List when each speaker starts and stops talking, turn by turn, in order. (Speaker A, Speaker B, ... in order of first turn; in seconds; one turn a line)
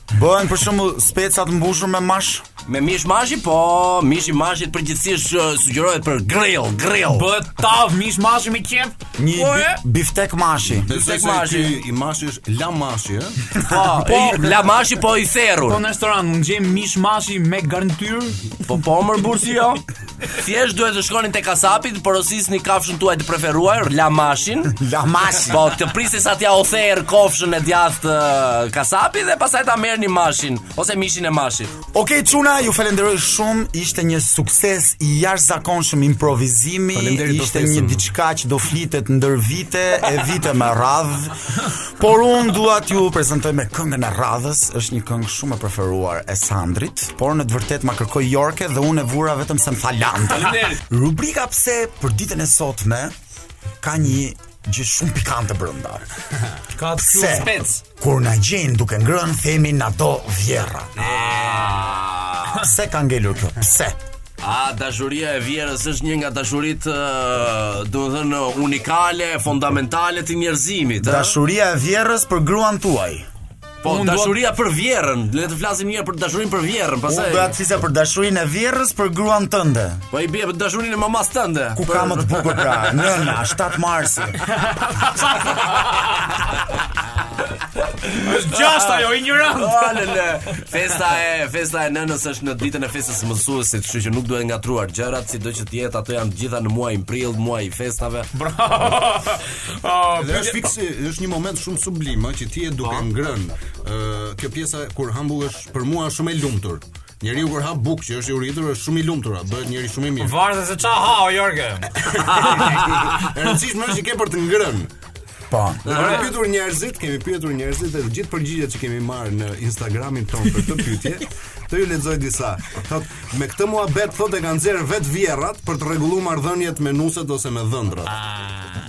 Speaker A: 0.1-2.5
Speaker B: 2.7-7.3
Speaker C: 7.1-9.0
Speaker A: 9.2-10.9
Speaker B: 9.3-9.8
Speaker D: 10.8-13.6
Speaker B: 10.9-11.8
Speaker B: 13.7-15.8
Speaker C: 13.9-14.5
Speaker D: 14.2-14.5
Speaker C: 15.7-18.6
Speaker B: 18.7-24.8
Speaker A: 24.8-25.7
Speaker B: 25.4-31.7
Speaker A: 31.9-53.1
Speaker D: 36.9-38.0
Speaker A: 53.8-56.1
Speaker C: 56.8-57.5
Speaker A: 57.0-61.0
Speaker B: 57.3-57.8
Speaker B: 61.0-62.6
Speaker D: 61.0-61.8
Speaker A: 62.5-64.0
Speaker B: 64.4-71.4
Speaker A: 71.0-73.3
Speaker B: 73.8-77.5
Speaker C: 73.8-74.4
Speaker A: 77.1-80.0
Speaker B: 80.1-83.3
Speaker A: 81.8-84.4
Speaker C: 84.7-86.4
Speaker C: 88.1-90.1
Speaker B: 88.6-98.3
Speaker C: 98.3-100.6
Speaker D: 100.2-110.4
Speaker C: 110.2-112.0
Speaker D: 112.0-114.9
Speaker A: 115.5-116.0
Speaker B: 115.8-116.3
Speaker D: 115.9-128.2
Speaker A: 128.4-128.8